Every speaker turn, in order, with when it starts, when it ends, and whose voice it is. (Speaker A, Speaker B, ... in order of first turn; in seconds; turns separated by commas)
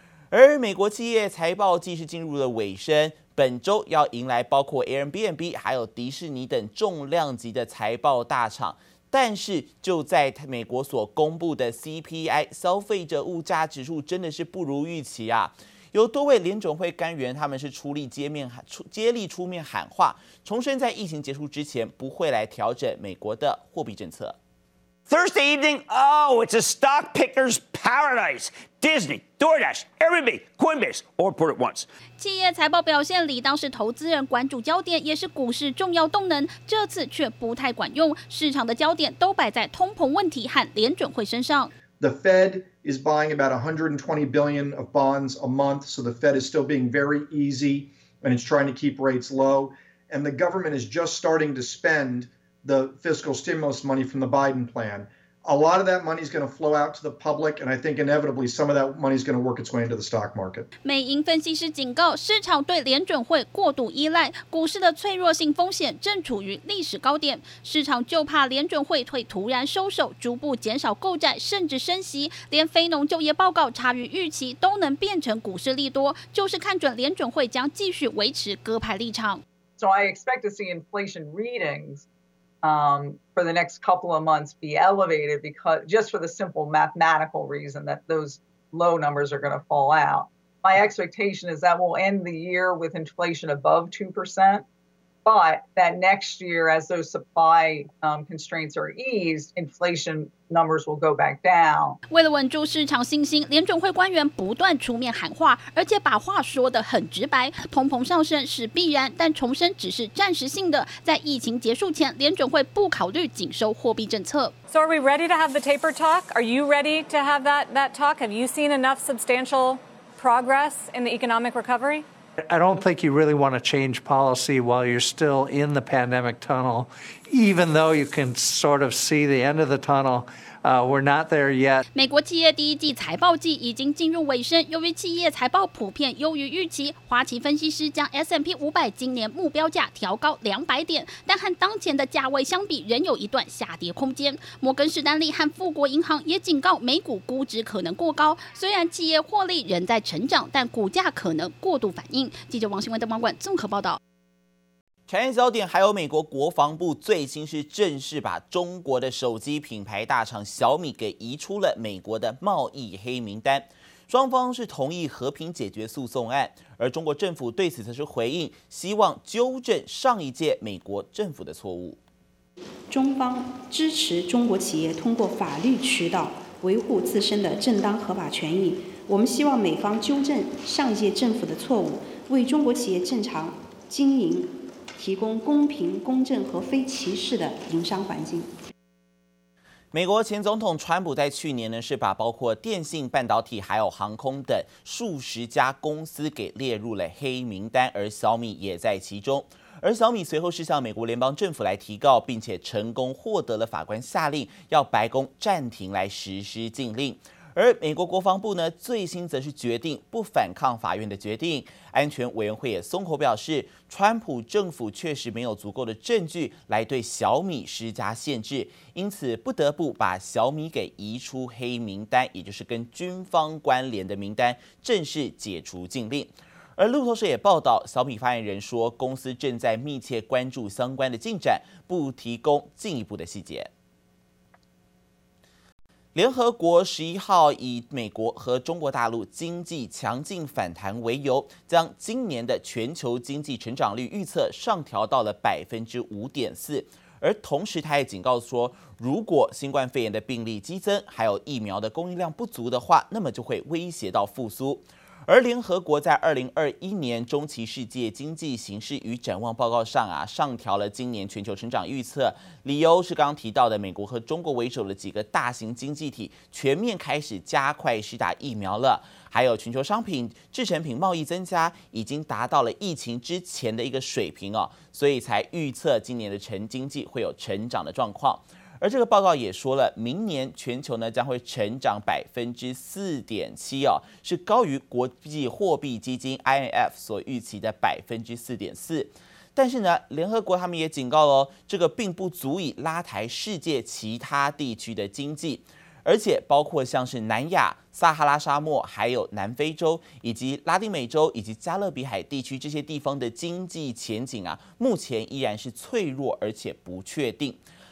Speaker A: 0.3-24.4, Speaker B: 25.1-31.9, Speaker C: 32.2-41.7, Speaker D: 42.0-60.7, Speaker C: 60.8-79.4, Speaker E: 79.8-82.0, Speaker E: 82.6-94.7, Speaker E: 95.2-102.0, Speaker C: 102.1-114.5, Speaker F: 114.7-122.0, Speaker G: 122.5-131.8, Speaker C: 131.9-154.0, Speaker A: 155.1-172.0, Speaker H: 172.9-188.5, Speaker A: 189.9-233.7, Speaker A: 236.1-307.6